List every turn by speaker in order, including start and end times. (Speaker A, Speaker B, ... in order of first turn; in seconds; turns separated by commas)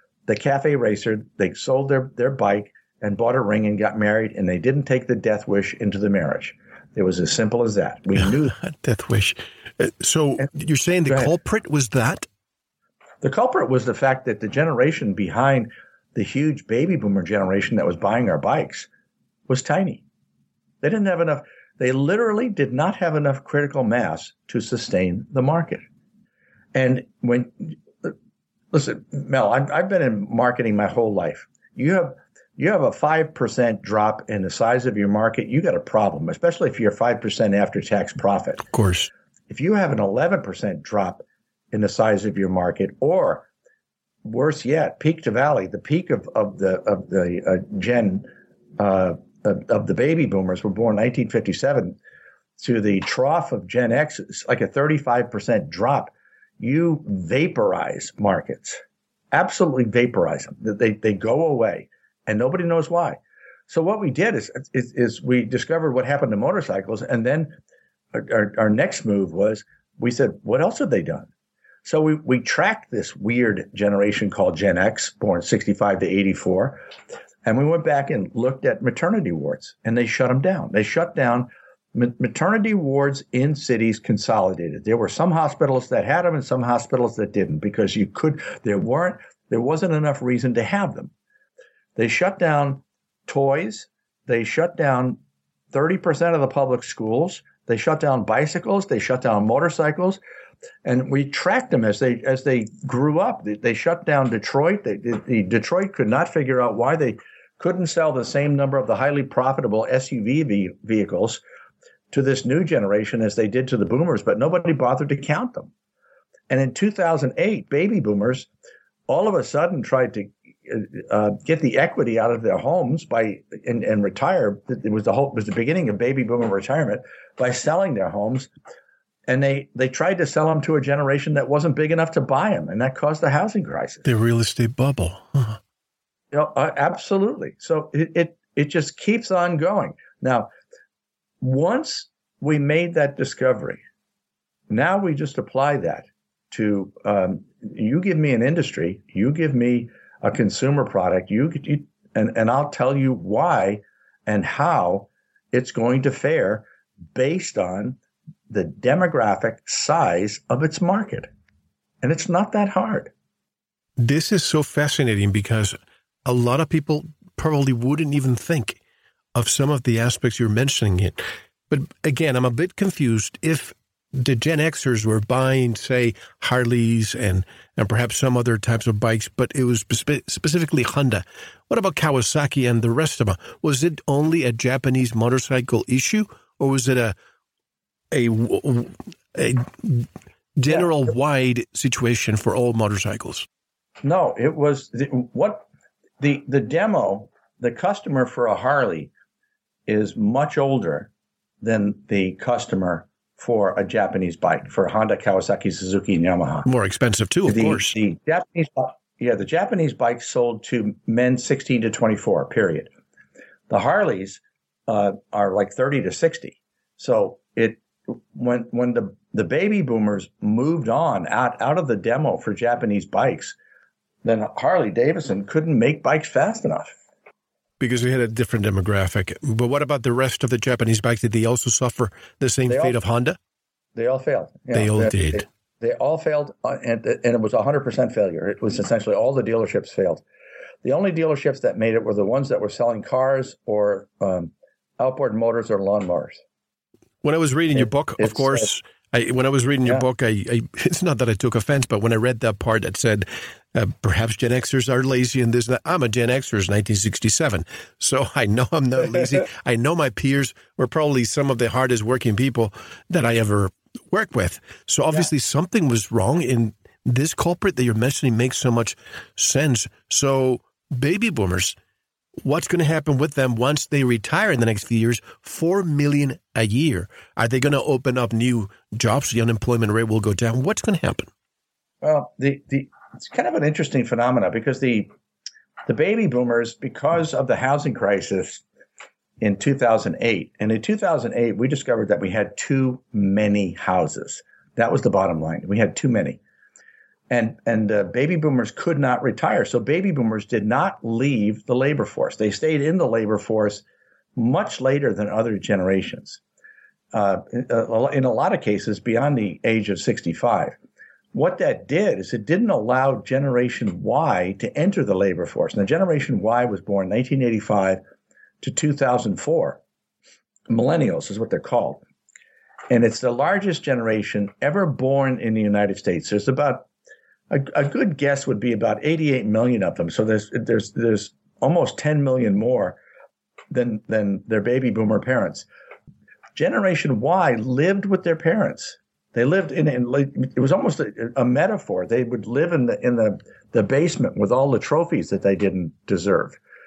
Speaker A: 0.3-8.5, Speaker B: 8.2-12.2, Speaker A: 11.1-11.3, Speaker A: 13.2-18.9, Speaker A: 19.5-20.0, Speaker A: 20.8-25.8, Speaker A: 26.7-28.1, Speaker A: 28.7-38.6, Speaker B: 38.7-39.1, Speaker A: 39.5-43.5, Speaker A: 44.2-52.0, Speaker A: 52.6-58.8, Speaker A: 59.3-67.5, Speaker A: 68.1-71.3, Speaker A: 71.8-76.8, Speaker A: 77.4-91.1, Speaker A: 92.0-95.2, Speaker A: 95.7-100.2, Speaker A: 100.8-111.4, Speaker A: 112.1-115.7, Speaker A: 116.5-118.5, Speaker A: 119.1-128.5, Speaker A: 129.3-134.0, Speaker B: 134.0-135.6, Speaker A: 136.3-140.5, Speaker A: 141.4-143.8, Speaker A: 144.7-158.0, Speaker A: 158.5-161.3, Speaker A: 162.0-163.1, Speaker B: 164.0-168.8, Speaker B: 169.3-187.1, Speaker B: 188.1-193.4, Speaker A: 194.0-195.7, Speaker A: 196.2-199.1, Speaker A: 199.9-201.1, Speaker A: 201.6-206.7, Speaker B: 206.7-208.0, Speaker A: 207.4-212.9, Speaker A: 213.7-223.6, Speaker A: 224.2-226.9, Speaker B: 227.8-233.4, Speaker A: 232.7-233.0, Speaker A: 233.9-240.2, Speaker B: 234.7-235.4, Speaker A: 240.8-246.4, Speaker B: 247.2-271.8, Speaker A: 247.7-248.7, Speaker B: 272.4-281.3, Speaker A: 282.0-285.1, Speaker A: 285.9-288.6, Speaker A: 289.4-296.4, Speaker A: 297.3-303.8, Speaker A: 304.4-306.4, Speaker A: 307.1-310.8, Speaker A: 311.3-318.0, Speaker A: 318.6-319.8, Speaker A: 320.7-322.0, Speaker A: 322.9-326.9, Speaker A: 327.5-333.0, Speaker A: 333.7-335.7, Speaker A: 336.6-346.6